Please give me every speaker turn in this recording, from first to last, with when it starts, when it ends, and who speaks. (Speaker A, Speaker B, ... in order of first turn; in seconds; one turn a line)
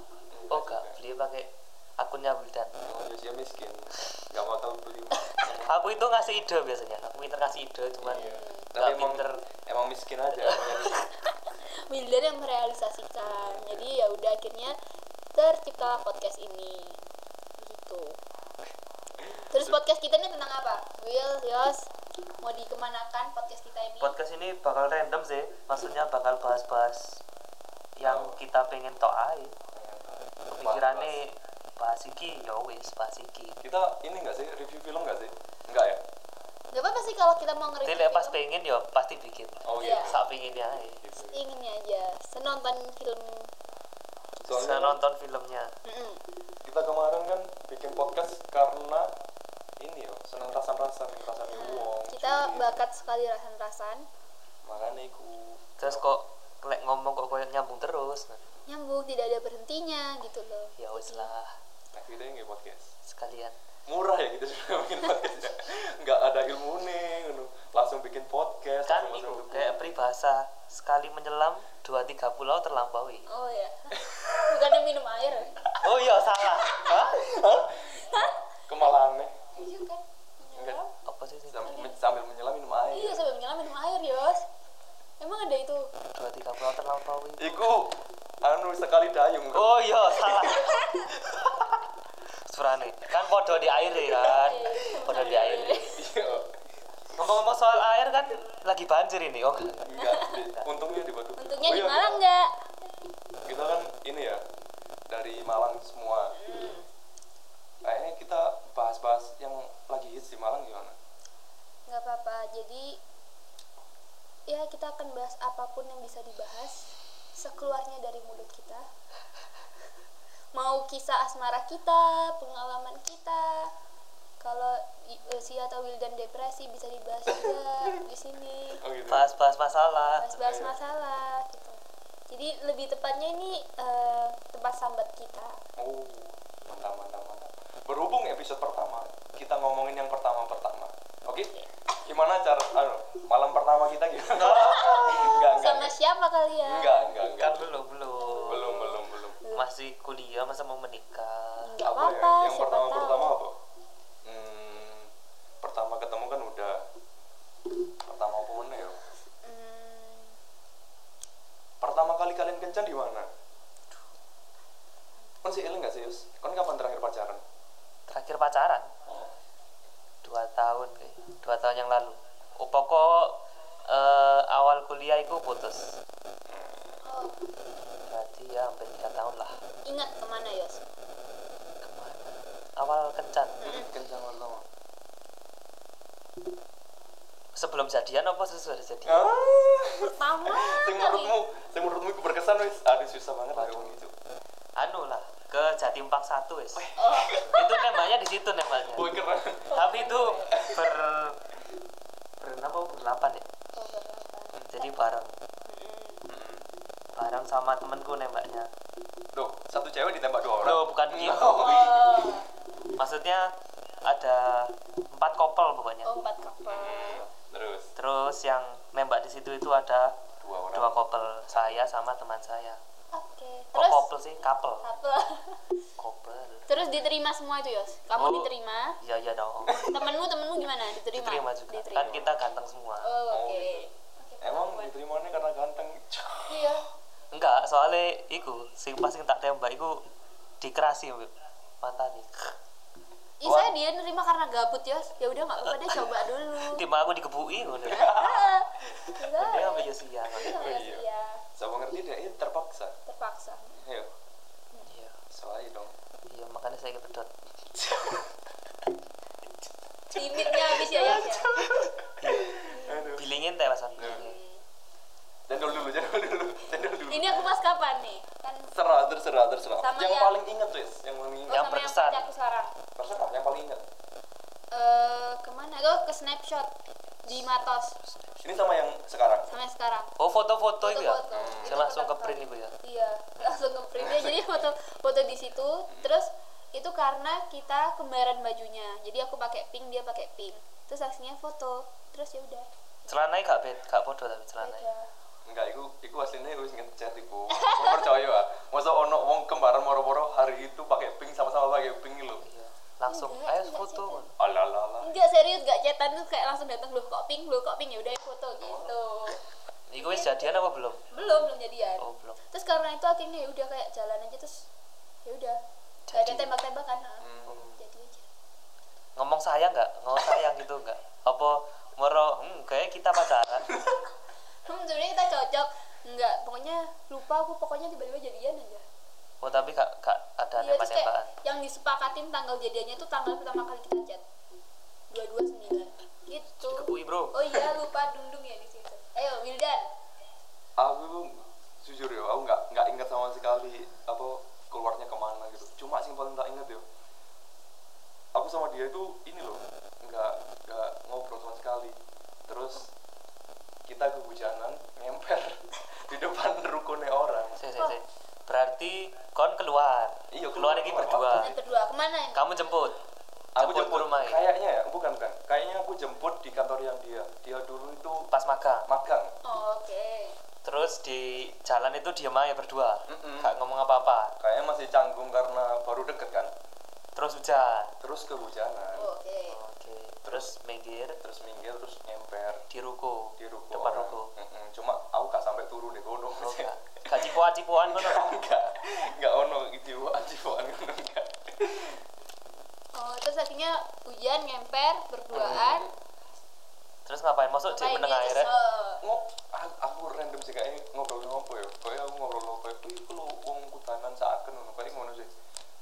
Speaker A: 0.3-1.0
Speaker B: 0.5-2.7
Speaker A: 2.8-5.8
Speaker B: 5.6-9.4
Speaker A: 8.0-11.1
Speaker C: 8.1-8.7
Speaker C: 11.9-14.8
Speaker A: 13.4-13.9
Speaker C: 15.3-17.0
Speaker C: 17.6-18.2
Speaker A: 19.2-19.7
Speaker C: 19.5-21.9
Speaker C: 22.4-24.2
Speaker B: 24.0-27.2
Speaker B: 28.0-29.5
Speaker A: 28.0-28.4
Speaker A: 29.7-31.2
Speaker B: 30.5-33.6
Speaker A: 33.6-36.0
Speaker C: 36.7-38.4
Speaker B: 37.8-41.0
Speaker A: 39.6-40.2
Speaker C: 39.8-40.1
Speaker A: 41.0-41.4
Speaker C: 41.2-43.5
Speaker A: 44.4-45.0
Speaker B: 44.5-45.7
Speaker C: 45.8-46.2
Speaker A: 46.6-49.1
Speaker A: 49.8-52.7
Speaker C: 51.5-54.0
Speaker A: 54.6-56.1
Speaker B: 55.8-58.4
Speaker C: 58.7-61.3
Speaker B: 60.8-61.5
Speaker A: 61.9-62.9
Speaker B: 63.0-63.5
Speaker A: 63.9-69.8
Speaker B: 68.8-73.3
Speaker C: 73.3-75.5
Speaker B: 75.8-77.3
Speaker A: 76.9-78.2
Speaker C: 78.0-78.9
Speaker A: 78.7-79.3
Speaker C: 79.5-80.9
Speaker B: 81.0-81.8
Speaker A: 81.5-83.2
Speaker C: 81.6-82.0
Speaker C: 82.9-84.4
Speaker C: 85.2-85.9
Speaker B: 86.1-87.8
Speaker A: 87.4-90.6
Speaker B: 89.5-90.9
Speaker C: 90.5-91.1
Speaker B: 92.5-96.0
Speaker A: 93.9-94.3
Speaker C: 94.2-96.0
Speaker A: 95.2-96.5
Speaker B: 97.1-100.7
Speaker A: 99.8-102.2
Speaker C: 100.0-100.4
Speaker C: 101.4-102.5
Speaker A: 103.4-104.4
Speaker A: 105.1-106.3
Speaker C: 106.3-106.9
Speaker A: 107.8-110.9
Speaker C: 111.9-113.0
Speaker C: 114.5-118.8
Speaker C: 120.5-123.7
Speaker C: 124.4-128.8
Speaker A: 127.3-127.6
Speaker A: 128.8-129.3
Speaker B: 129.1-130.4
Speaker C: 130.1-131.8
Speaker A: 130.4-130.8
Speaker C: 132.3-135.6
Speaker A: 135.8-141.5
Speaker A: 142.0-145.9
Speaker B: 144.4-144.9
Speaker C: 144.4-147.2
Speaker A: 146.6-147.8
Speaker B: 147.3-148.7
Speaker C: 148.2-149.7
Speaker A: 148.5-149.4
Speaker B: 149.5-151.7
Speaker C: 151.6-153.4
Speaker A: 151.8-153.5
Speaker A: 154.2-155.1
Speaker A: 155.6-156.8
Speaker A: 158.0-159.0
Speaker C: 159.4-160.4
Speaker A: 161.8-163.3
Speaker A: 165.4-167.4
Speaker B: 168.1-168.9
Speaker B: 170.2-173.3
Speaker B: 173.9-175.9
Speaker A: 176.5-177.0
Speaker C: 177.0-177.4
Speaker B: 178.1-179.5
Speaker C: 179.8-180.8
Speaker B: 181.8-183.6
Speaker C: 183.6-183.9
Speaker A: 183.6-184.6
Speaker B: 187.5-189.3
Speaker A: 189.1-194.1
Speaker C: 190.0-191.4
Speaker B: 193.5-194.0
Speaker B: 194.8-196.9
Speaker A: 196.8-197.6
Speaker C: 196.9-197.7
Speaker B: 197.5-199.1
Speaker A: 198.7-200.9
Speaker B: 199.7-201.4
Speaker C: 199.7-200.5
Speaker B: 202.4-203.4
Speaker C: 203.8-205.0
Speaker B: 204.7-205.3
Speaker C: 205.7-206.2
Speaker A: 206.3-206.7
Speaker B: 207.1-208.7
Speaker A: 209.3-212.4
Speaker B: 210.6-211.8
Speaker C: 211.4-212.5
Speaker B: 212.9-213.5
Speaker B: 214.0-216.1
Speaker C: 216.0-217.3
Speaker A: 216.6-217.9
Speaker B: 217.9-220.2
Speaker A: 220.4-221.8
Speaker B: 220.7-222.8
Speaker C: 223.1-224.1
Speaker B: 223.7-224.8
Speaker C: 224.8-225.6
Speaker B: 226.0-227.0
Speaker C: 226.7-229.0
Speaker B: 228.2-228.5
Speaker B: 229.0-229.9
Speaker A: 229.7-230.0
Speaker C: 229.9-232.4
Speaker B: 231.1-233.1
Speaker C: 233.0-234.9
Speaker A: 233.3-233.9
Speaker A: 234.4-236.7
Speaker C: 236.5-236.8
Speaker B: 237.3-240.0
Speaker B: 240.6-241.3
Speaker B: 241.8-242.5
Speaker C: 243.4-246.8
Speaker A: 243.4-243.8
Speaker B: 245.6-248.1
Speaker A: 247.8-248.5
Speaker C: 247.9-251.4
Speaker B: 249.3-250.6
Speaker A: 250.6-251.0
Speaker A: 251.6-252.9
Speaker C: 253.1-253.8
Speaker A: 253.8-254.1
Speaker B: 254.9-255.2
Speaker A: 255.3-255.9
Speaker B: 256.3-257.3
Speaker A: 257.7-258.3
Speaker A: 260.1-263.2
Speaker C: 260.1-261.5
Speaker B: 262.2-264.3
Speaker C: 262.6-263.2
Speaker A: 264.0-264.2
Speaker C: 264.0-264.6
Speaker A: 265.5-267.5
Speaker C: 267.1-268.7
Speaker A: 268.7-271.6
Speaker C: 269.8-270.4
Speaker C: 271.5-272.8
Speaker B: 271.5-272.3
Speaker A: 272.9-273.8
Speaker C: 274.7-276.7
Speaker C: 277.2-277.9
Speaker A: 278.4-279.5
Speaker C: 279.5-280.1
Speaker B: 280.2-282.8
Speaker C: 280.8-293.2
Speaker A: 281.3-281.8
Speaker A: 284.0-284.4
Speaker B: 293.1-294.9
Speaker C: 294.6-295.1
Speaker A: 295.4-302.4
Speaker C: 297.5-298.1
Speaker B: 302.4-304.3
Speaker C: 303.1-304.2
Speaker A: 304.4-305.1
Speaker C: 305.0-309.4
Speaker A: 308.6-308.9
Speaker B: 309.9-311.1
Speaker C: 309.9-310.6
Speaker C: 311.1-314.6
Speaker B: 312.0-312.4
Speaker C: 315.2-315.6
Speaker B: 316.1-316.5
Speaker C: 316.1-318.3
Speaker A: 317.2-317.8
Speaker B: 319.1-323.8
Speaker C: 324.6-328.8
Speaker B: 329.4-331.3
Speaker C: 330.6-334.2
Speaker C: 335.1-339.8
Speaker B: 336.6-337.4
Speaker A: 340.8-346.8
Speaker A: 348.3-352.9
Speaker A: 353.9-357.6
Speaker B: 357.6-361.5
Speaker A: 360.3-361.5
Speaker C: 361.3-362.5
Speaker B: 362.3-363.0
Speaker A: 363.5-368.3
Speaker B: 363.6-364.4
Speaker B: 368.3-368.9
Speaker A: 368.9-369.3
Speaker C: 369.4-370.3
Speaker B: 370.6-374.3
Speaker A: 373.1-373.5
Speaker A: 374.4-376.5
Speaker B: 377.1-377.9
Speaker A: 378.0-379.1
Speaker C: 378.9-379.6
Speaker B: 379.5-381.2
Speaker A: 380.2-380.5
Speaker A: 381.2-382.6
Speaker B: 382.7-384.3
Speaker A: 383.4-387.3
Speaker B: 386.4-388.4
Speaker A: 387.9-392.0
Speaker C: 392.9-395.9
Speaker A: 395.3-395.9
Speaker B: 397.1-398.5
Speaker C: 397.7-399.0
Speaker A: 399.0-405.3